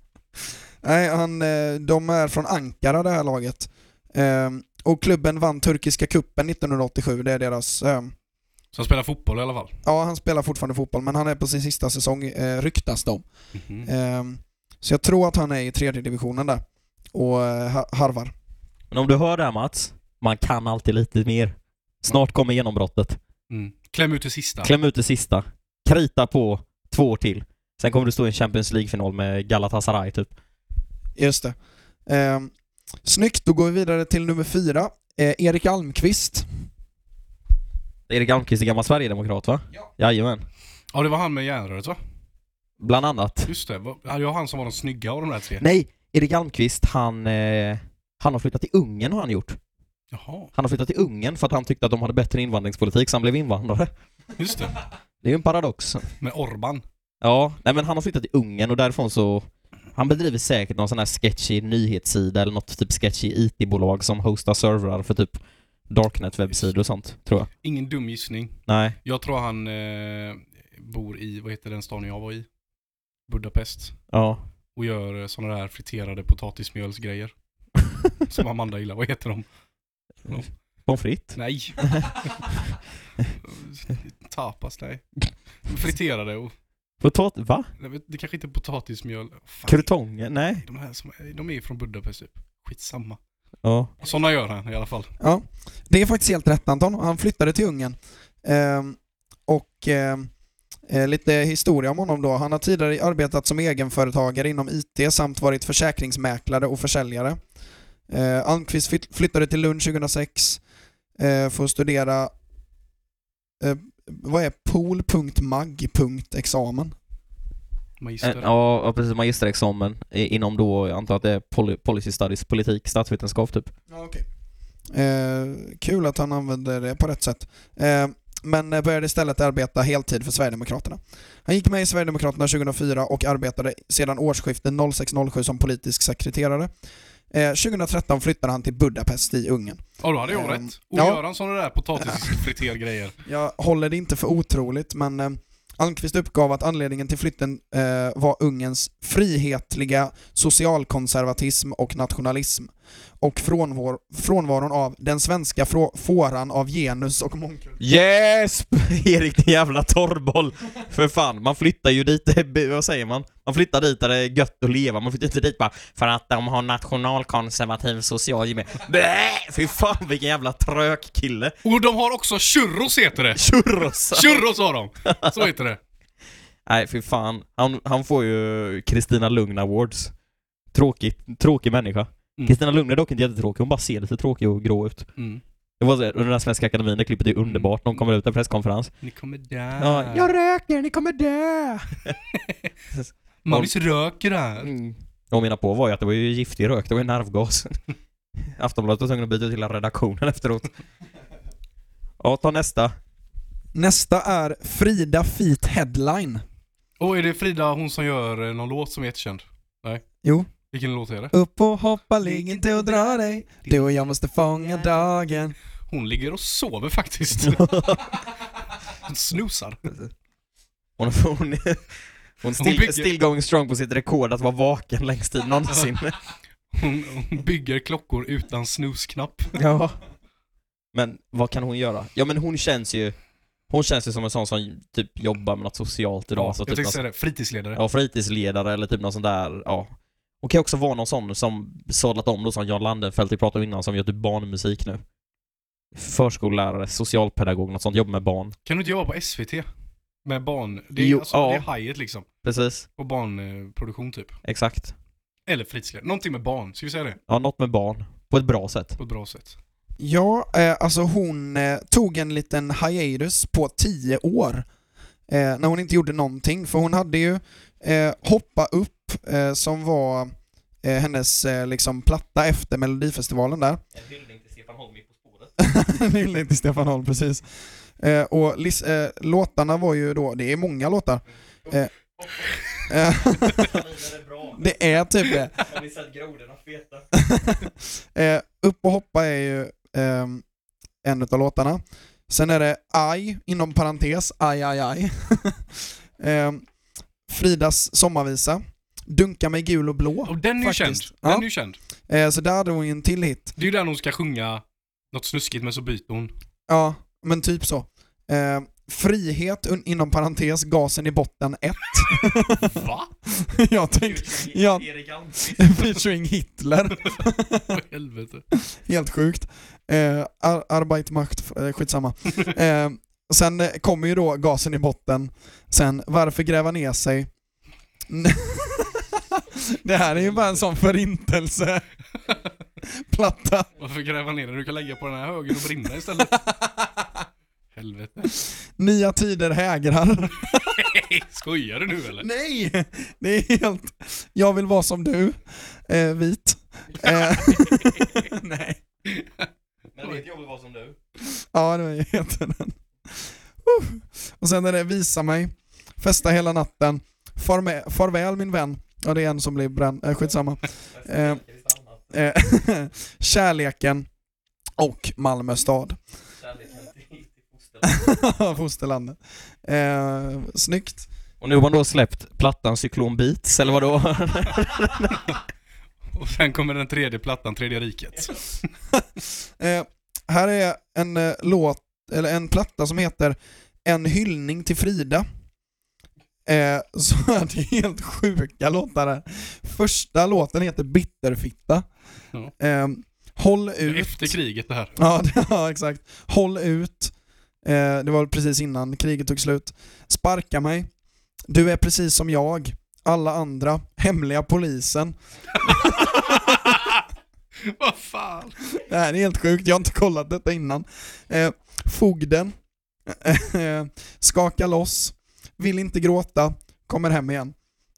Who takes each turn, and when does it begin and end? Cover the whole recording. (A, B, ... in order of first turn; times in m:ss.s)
0:00.8-0:08.1 A
0:08.7-0:09.8 B
0:09.8-0:13.2 A
0:13.6-0:13.9 B
0:13.8-0:16.6 A
0:17.1-0:18.3 A
0:18.9-0:23.2 C
0:23.5-0:24.7 B
0:24.6-0:30.3 C
0:31.2-0:31.6 A
0:32.1-0:32.5 A
0:33.0-0:36.5 A
0:38.1-0:40.4 C
0:40.9-0:42.0 B
0:42.8-0:43.5 C
0:43.5-0:45.6 B
0:45.6-0:49.6 C
0:50.1-0:50.5 B
0:50.6-0:53.9 C
0:54.4-0:54.8 B
0:55.2-0:56.1 C
0:56.2-0:56.8 B
0:57.2-1:05.4 C
1:05.9-1:07.5 C
1:07.6-1:12.5 B
1:08.7-1:09.0 C
1:13.3-1:14.0 B
1:14.1-1:14.4 C
1:14.8-1:17.3 B
1:18.3-1:19.5 B
1:20.4-1:22.1 C
1:21.4-1:22.4 B
1:23.4-1:25.0 B
1:25.6-1:26.5 B
1:27.0-1:27.7 C
1:27.8-1:29.9 B
1:29.7-1:30.6 C
1:30.6-1:33.2 B
1:33.6-1:33.9 C
1:34.0-1:35.1 B
1:35.2-1:40.3 A
1:40.9-1:47.4 A
1:48.1-1:50.6 A
1:51.2-1:52.3 A
1:53.6-1:57.0 A
1:58.0-1:58.5 B
1:58.2-2:03.7 C
2:03.9-2:04.2 A
2:04.9-2:16.7 A
2:17.3-2:21.2 A
2:20.0-2:23.2 B
2:23.3-2:37.8 A
2:37.8-2:51.6 C
2:51.6-2:53.5 B
2:53.4-2:54.4 C
2:54.1-2:55.8 B
2:55.1-2:55.4 C
2:56.7-3:00.1 C
3:00.7-3:05.1 C
3:05.2-3:05.4 B
3:05.8-3:08.9 C
3:07.5-3:07.7 B
3:09.0-3:10.4 B
3:09.8-3:12.2 C
3:12.3-3:12.7 B
3:12.9-3:13.7 C
3:13.5-3:14.7 B
3:14.6-3:17.8 C
3:18.4-3:20.7 C
3:22.2-3:23.0 C
3:23.8-3:26.4 A
3:27.0-3:30.0 B
3:30.2-3:30.5 A
3:30.7-3:31.3 B
3:31.3-3:35.6 A
3:35.9-3:37.8 B
3:37.4-3:38.1 C
3:39.0-3:39.9 B
3:41.0-3:46.2 C
3:42.6-3:43.1 B
3:46.7-3:49.6 B
3:49.6-3:50.0 C
3:50.9-3:53.2 C
3:53.7-3:57.0 C
3:56.4-3:57.8 B
3:57.7-4:05.0 C
4:05.9-4:08.6 C
4:08.7-4:09.7 B
4:10.2-4:12.3 B
4:11.0-4:11.7 C
4:12.4-4:12.9 C
4:13.0-4:14.3 B
4:14.4-4:14.9 C
4:15.5-4:17.2 B
4:17.3-4:19.0 C
4:19.0-4:19.6 B
4:20.0-4:24.7 A
4:25.3-4:33.8 A
4:34.0-4:35.5 C
4:35.6-4:37.4 A
4:38.0-4:41.9 A
4:42.2-4:42.5 C
4:42.9-4:43.8 A
4:43.4-4:44.6 C
4:44.5-4:45.6 A
4:45.6-4:47.1 C
4:47.1-4:50.4 A
4:51.0-4:56.6 A
4:57.3-5:01.5 A
5:00.3-5:01.8 B
5:02.1-5:03.5 A
5:03.6-5:06.3 B
5:06.7-5:12.8 A
5:12.6-5:13.1 B
5:13.3-5:17.8 A
5:14.0-5:15.9 C
5:17.7-5:18.4 B
5:18.6-5:27.3 A
5:28.1-5:31.8 A
5:32.9-5:33.7 A
5:33.8-5:36.4 B
5:36.4-5:37.2 A
5:37.7-5:38.3 B
5:38.4-5:40.8 A
5:40.5-5:42.3 B
5:42.2-5:48.8 A
5:49.1-5:49.5 B
5:49.9-5:51.0 C
5:51.4-6:01.4 A
6:00.9-6:02.1 C
6:02.1-6:04.1 A
6:04.8-6:06.0 A
6:06.4-6:07.8 C
6:07.8-6:11.1 A
6:11.4-6:15.4 C
6:16.1-6:18.5 B
6:18.9-6:25.3 A
6:26.5-6:31.9 A
6:32.6-6:34.4 A
6:33.8-6:34.9 B
6:35.0-6:37.1 A
6:37.6-6:40.9 A
6:41.5-6:46.5 A
6:45.7-6:47.0 B
6:47.6-6:48.6 B
6:48.8-6:52.6 A
6:53.1-6:57.6 A